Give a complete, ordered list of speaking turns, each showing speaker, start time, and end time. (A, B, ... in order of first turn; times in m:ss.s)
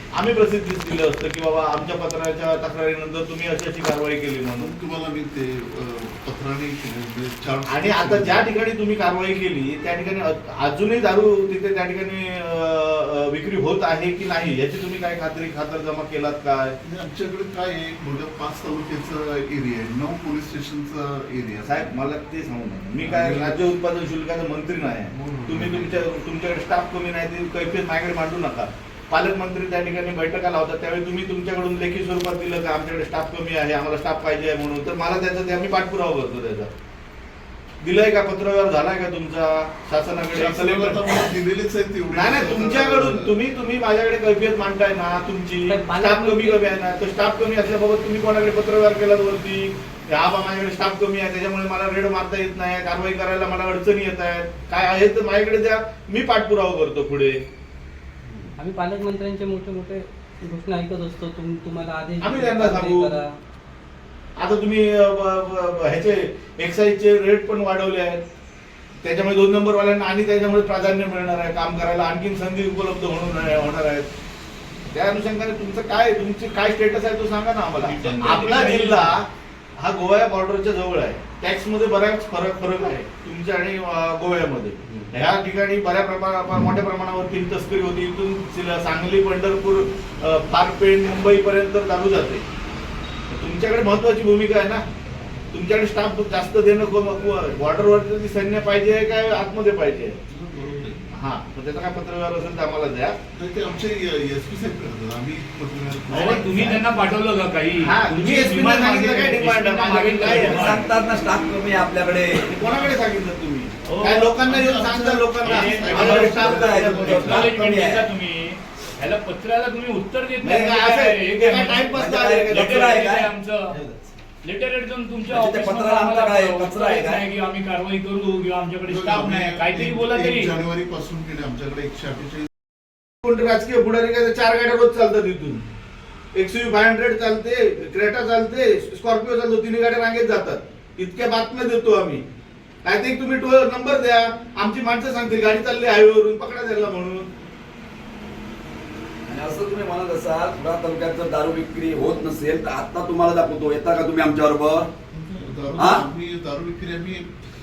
0:00.1-0:04.7 A
0:04.6-0:08.5 B
0:07.7-0:16.8 A
0:16.8-0:21.9 B
0:21.7-0:36.7 A
0:23.0-0:23.6 B
0:25.1-0:26.0 B
0:37.8-0:41.2 A
0:40.3-0:43.3 B
0:42.1-0:57.4 A
0:45.7-0:46.7 C
0:58.6-1:03.3 C
1:02.2-1:03.1 A
1:04.4-1:08.2 A
1:09.0-1:14.1 A
1:14.9-1:32.4 A
1:17.8-1:18.7 B
1:18.0-1:19.1 D
1:33.3-1:34.8 A
1:35.5-1:40.2 A
1:40.3-1:41.1 B
1:41.1-1:43.2 A
1:43.3-1:46.8 B
1:46.1-1:46.8 A
1:46.1-1:50.9 D
1:47.8-1:50.8 A
1:50.3-1:52.5 E
1:50.3-1:51.9 B
1:52.5-1:57.4 A
1:52.6-1:52.9 D
1:53.9-1:54.3 D
1:54.4-1:57.5 B
1:55.5-2:03.8 D
1:56.2-1:58.1 E
2:00.4-2:03.0 A
2:01.9-2:03.3 E
2:03.7-2:04.0 A
2:04.4-2:10.6 D
2:05.3-2:07.2 E
2:08.8-2:12.5 B
2:13.2-2:15.6 A
2:16.3-2:22.2 A
2:22.8-2:27.3 A
2:29.3-2:34.9 E
2:35.1-2:37.3 B
2:35.8-2:36.0 E